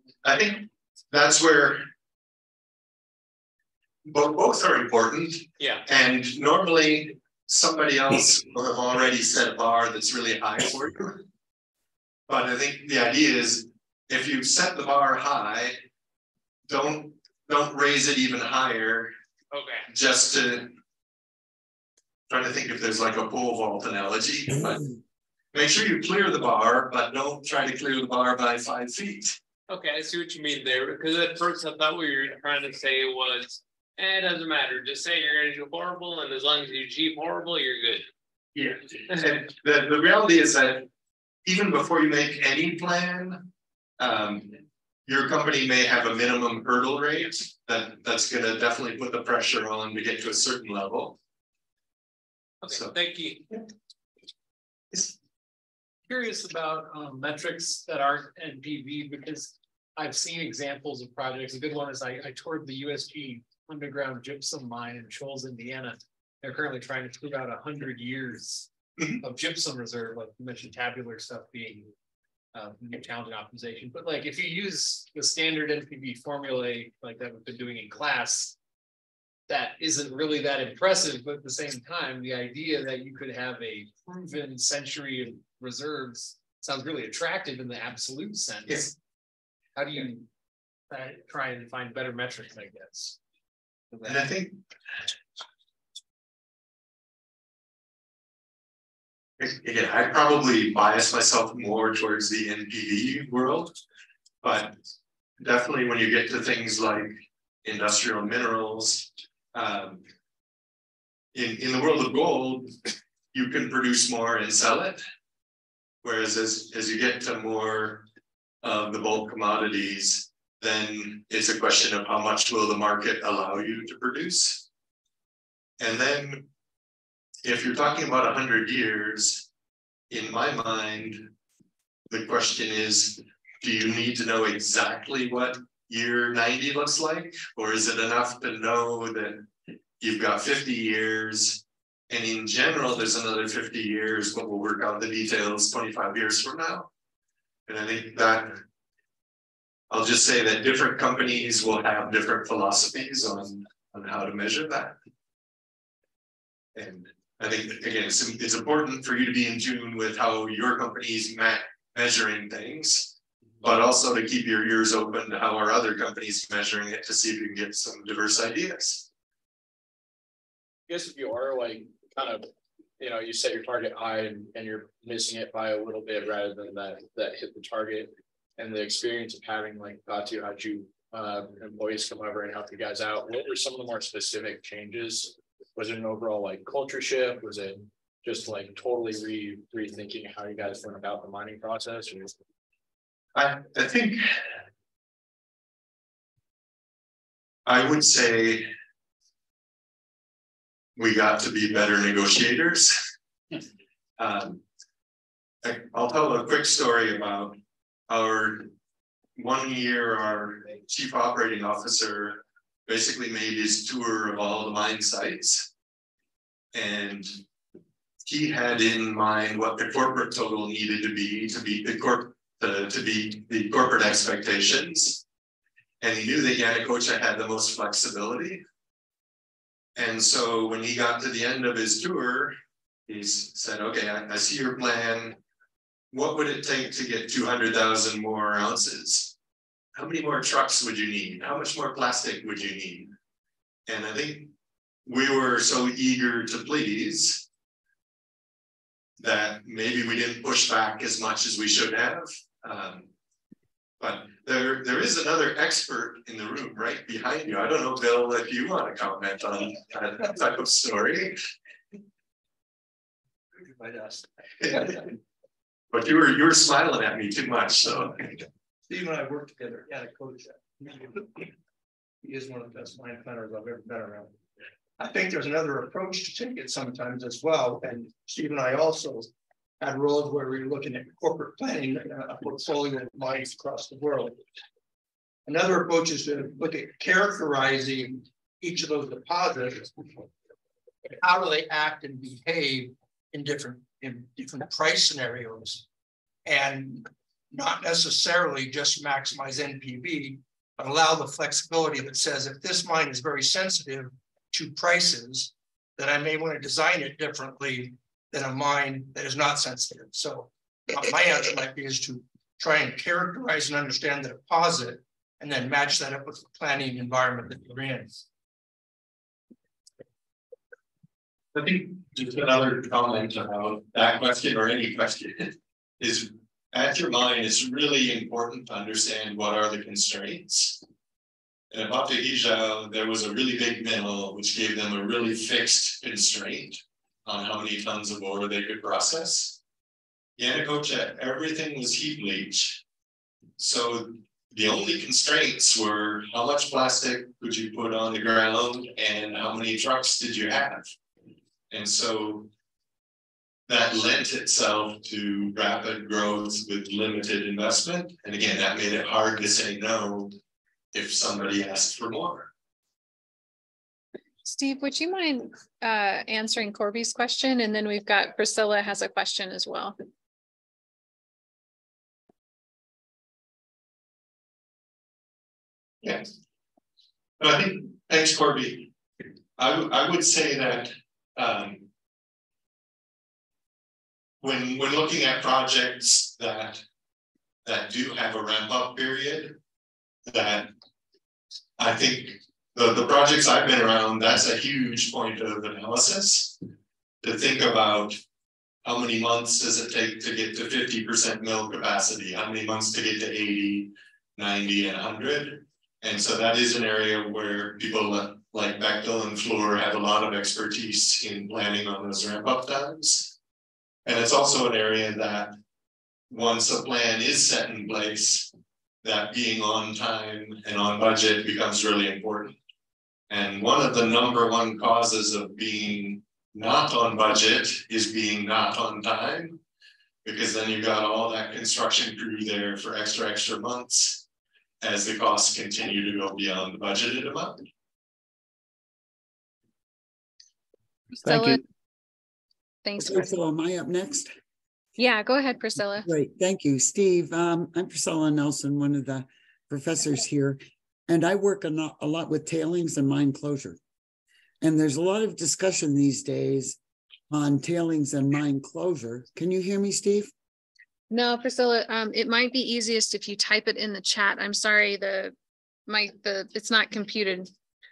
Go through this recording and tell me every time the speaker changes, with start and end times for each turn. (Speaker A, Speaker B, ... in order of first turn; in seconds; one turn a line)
Speaker A: 0.2-1.8
Speaker A: 4.0-11.2
Speaker B: 5.6-5.8
Speaker A: 12.3-15.8
Speaker A: 16.7-19.1
Speaker B: 19.5-19.9
Speaker A: 19.9-20.7
Speaker A: 22.3-24.9
Speaker A: 25.5-29.4
Speaker B: 29.7-38.1
Speaker A: 38.5-40.9
Speaker A: 41.5-43.5
Speaker A: 44.0-51.2
Speaker B: 52.6-53.5
Speaker A: 52.7-52.9
Speaker C: 56.0-68.7
Speaker C: 69.2-71.9
Speaker C: 72.5-78.5
Speaker C: 79.5-88.9
Speaker C: 89.8-90.2
Speaker C: 90.9-93.2
Speaker C: 93.9-94.2
Speaker A: 94.0-94.6
Speaker A: 99.4-103.7
Speaker A: 104.4-104.7
Speaker A: 105.4-110.0
Speaker A: 111.3-112.7
Speaker A: 113.3-115.0
Speaker A: 116.0-118.0
Speaker A: 118.6-124.6
Speaker A: 125.8-126.5
Speaker A: 127.4-129.4
Speaker A: 130.1-131.3
Speaker A: 132.1-139.4
Speaker A: 140.0-146.9
Speaker A: 147.7-148.6
Speaker A: 149.9-154.9
Speaker A: 156.8-169.1
Speaker D: 170.9-172.5
Speaker D: 173.0-192.3
Speaker A: 193.3-194.4
Speaker A: 197.7-198.7
Speaker A: 201.0-203.0
Speaker A: 204.2-204.6
Speaker A: 205.6-207.6
Speaker A: 208.1-208.7
Speaker A: 209.4-215.7
Speaker A: 216.7-217.3
Speaker A: 218.2-225.2
Speaker A: 226.0-228.6
Speaker A: 229.9-232.5
Speaker A: 233.1-235.4
Speaker A: 236.1-239.3
Speaker A: 239.9-243.1
Speaker A: 243.9-244.5
Speaker A: 245.1-247.4
Speaker A: 249.2-253.1
Speaker A: 254.0-261.4
Speaker E: 263.6-265.0
Speaker A: 264.6-264.9
Speaker A: 265.9-268.4
Speaker E: 268.9-271.3
Speaker E: 272.2-274.3
Speaker E: 275.0-284.4
Speaker E: 285.5-289.9
Speaker E: 291.2-295.8
Speaker E: 296.4-318.2
Speaker A: 321.5-330.8
Speaker A: 331.7-339.6
Speaker A: 340.4-342.8
Speaker A: 343.6-350.9
Speaker A: 351.7-352.5
Speaker A: 353.7-360.3
Speaker A: 360.9-362.5
Speaker F: 364.4-369.9
Speaker A: 377.4-378.9
Speaker A: 379.6-381.9
Speaker A: 384.4-386.8
Speaker A: 387.6-389.6
Speaker A: 390.3-390.7
Speaker A: 391.8-396.6
Speaker A: 397.2-398.2
Speaker A: 398.8-413.3
Speaker A: 414.1-415.5
Speaker A: 416.3-418.5
Speaker A: 419.0-422.6
Speaker A: 423.3-429.6
Speaker A: 430.2-434.2
Speaker A: 434.8-437.6
Speaker F: 441.2-441.6
Speaker F: 442.8-443.3
Speaker G: 443.0-444.3
Speaker F: 445.0-446.1
Speaker G: 446.0-453.8
Speaker G: 454.6-456.8
Speaker G: 457.3-460.3
Speaker F: 461.1-465.3
Speaker F: 465.9-467.5